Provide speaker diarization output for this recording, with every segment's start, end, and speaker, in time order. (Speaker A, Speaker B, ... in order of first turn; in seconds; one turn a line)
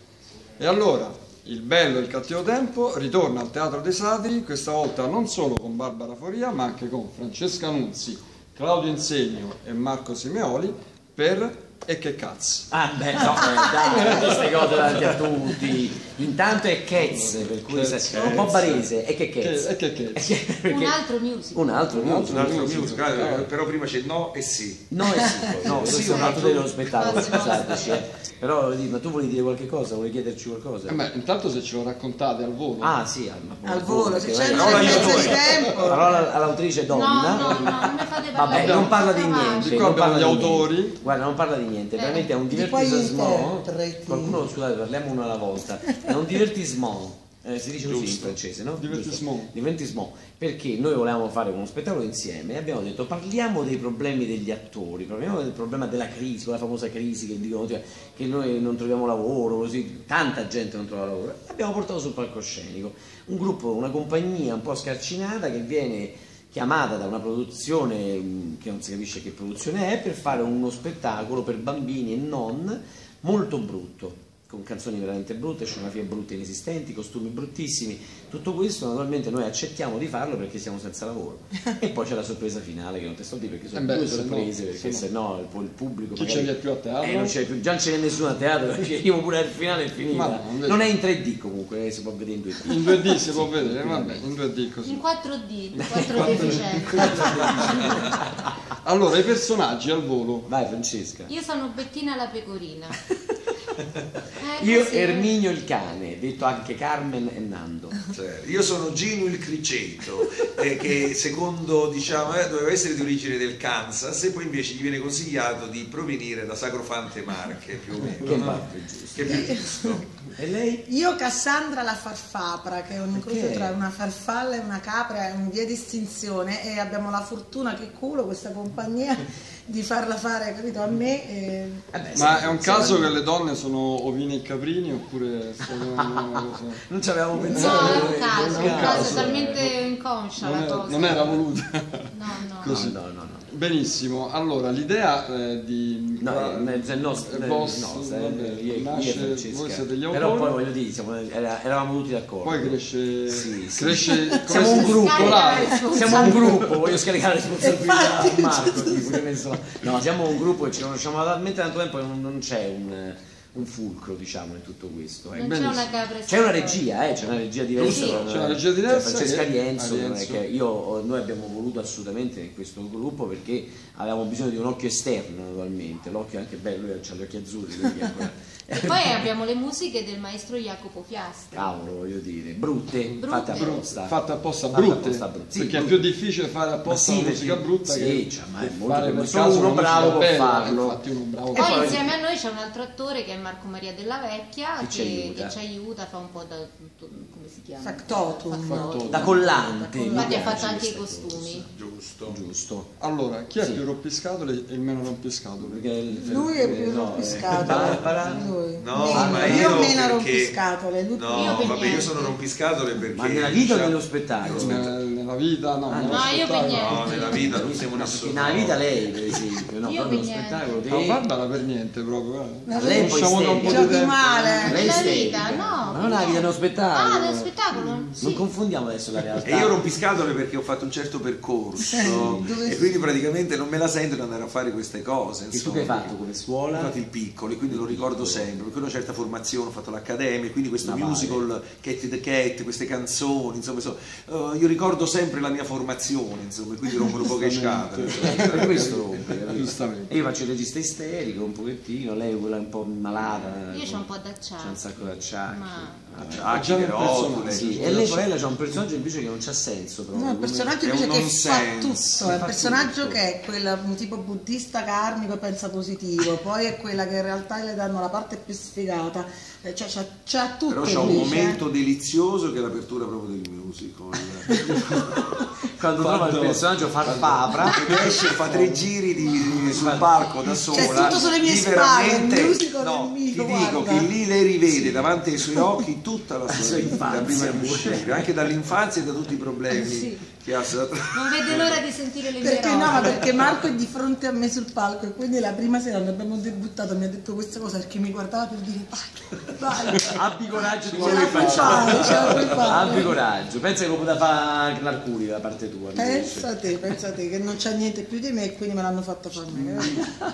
Speaker A: 0.6-12.7
Speaker B: 12.7-21.0
Speaker C: 13.2-14.1
Speaker A: 13.9-14.4
Speaker A: 16.9-18.2
Speaker D: 18.1-18.9
Speaker A: 19.4-20.3
Speaker E: 20.7-21.8
Speaker B: 21.5-22.6
Speaker A: 21.9-23.5
Speaker D: 22.2-25.0
Speaker B: 24.9-31.0
Speaker D: 25.5-27.6
Speaker E: 26.8-28.0
Speaker A: 30.9-33.0
Speaker B: 32.8-94.2
Speaker C: 33.6-36.3
Speaker D: 34.5-35.5
Speaker E: 36.9-39.8
Speaker A: 37.4-37.9
Speaker A: 38.5-41.0
Speaker E: 41.9-42.3
Speaker C: 42.5-44.4
Speaker D: 47.8-48.4
Speaker A: 48.7-49.5
Speaker A: 83.7-85.1
Speaker A: 86.1-87.4
Speaker A: 90.1-90.9
Speaker A: 92.6-95.0
Speaker E: 94.8-98.0
Speaker B: 95.8-98.5
Speaker A: 95.9-97.9
Speaker A: 98.8-100.5
Speaker B: 100.5-101.3
Speaker E: 101.3-102.9
Speaker B: 103.1-103.4
Speaker E: 104.4-105.3
Speaker B: 104.6-108.0
Speaker D: 108.1-120.1
Speaker B: 118.2-119.4
Speaker C: 119.2-120.0
Speaker B: 120.4-120.8
Speaker C: 120.8-131.8
Speaker B: 123.1-123.8
Speaker B: 131.9-133.2
Speaker A: 132.2-139.7
Speaker B: 135.6-139.4
Speaker C: 137.5-138.0
Speaker E: 137.5-141.2
Speaker A: 140.4-142.1
Speaker E: 142.1-142.7
Speaker B: 142.6-143.4
Speaker A: 142.6-142.9
Speaker A: 143.5-150.5
Speaker B: 146.2-179.3
Speaker A: 152.4-155.7
Speaker E: 154.8-156.8
Speaker C: 155.7-156.2
Speaker C: 157.6-159.1
Speaker E: 165.3-167.1
Speaker A: 165.4-165.7
Speaker E: 167.8-168.2
Speaker A: 167.8-170.4
Speaker E: 178.8-181.7
Speaker B: 181.5-184.2
Speaker A: 183.1-192.1
Speaker E: 183.2-183.8
Speaker B: 184.7-186.1
Speaker B: 186.8-191.0
Speaker B: 191.5-192.2
Speaker E: 191.5-199.0
Speaker B: 194.8-195.6
Speaker C: 197.8-200.7
Speaker A: 198.6-199.3
Speaker B: 199.1-201.7
Speaker E: 200.1-201.7
Speaker D: 201.7-202.4
Speaker B: 202.3-202.9
Speaker A: 203.0-205.9
Speaker B: 205.6-208.5
Speaker C: 206.1-212.1
Speaker D: 207.7-208.2
Speaker D: 208.7-210.6
Speaker B: 209.0-209.9
Speaker D: 211.1-214.9
Speaker E: 211.3-212.4
Speaker B: 213.1-214.8
Speaker A: 214.6-217.2
Speaker B: 215.9-216.3
Speaker E: 216.1-217.6
Speaker D: 216.2-219.4
Speaker B: 217.5-221.2
Speaker E: 219.8-220.8
Speaker A: 220.9-224.8
Speaker C: 222.7-225.1
Speaker B: 222.8-224.1
Speaker B: 224.6-227.5
Speaker E: 224.7-228.4
Speaker D: 227.7-228.0
Speaker B: 228.2-229.8
Speaker D: 229.4-248.8
Speaker C: 231.8-233.0
Speaker B: 232.1-232.4
Speaker B: 235.5-236.9
Speaker B: 237.7-238.4
Speaker B: 240.8-241.4
Speaker A: 247.2-250.1
Speaker B: 248.1-256.4
Speaker E: 253.7-254.8
Speaker E: 255.4-256.0
Speaker D: 256.1-258.4
Speaker A: 256.5-257.9
Speaker B: 257.5-260.8
Speaker C: 260.1-271.6
Speaker D: 260.8-263.2
Speaker D: 270.7-291.8
Speaker C: 274.4-274.9
Speaker B: 275.8-278.3
Speaker A: 278.5-278.9
Speaker B: 279.4-280.2
Speaker C: 280.7-284.1
Speaker B: 280.7-281.3
Speaker B: 284.7-285.1
Speaker B: 286.5-288.3
Speaker E: 289.7-290.2
Speaker E: 291.1-293.4
Speaker C: 292.4-303.2
Speaker D: 293.0-293.2
Speaker B: 300.0-306.9
Speaker A: 300.9-302.5
Speaker D: 301.9-302.2
Speaker C: 305.9-310.0
Speaker A: 309.5-309.9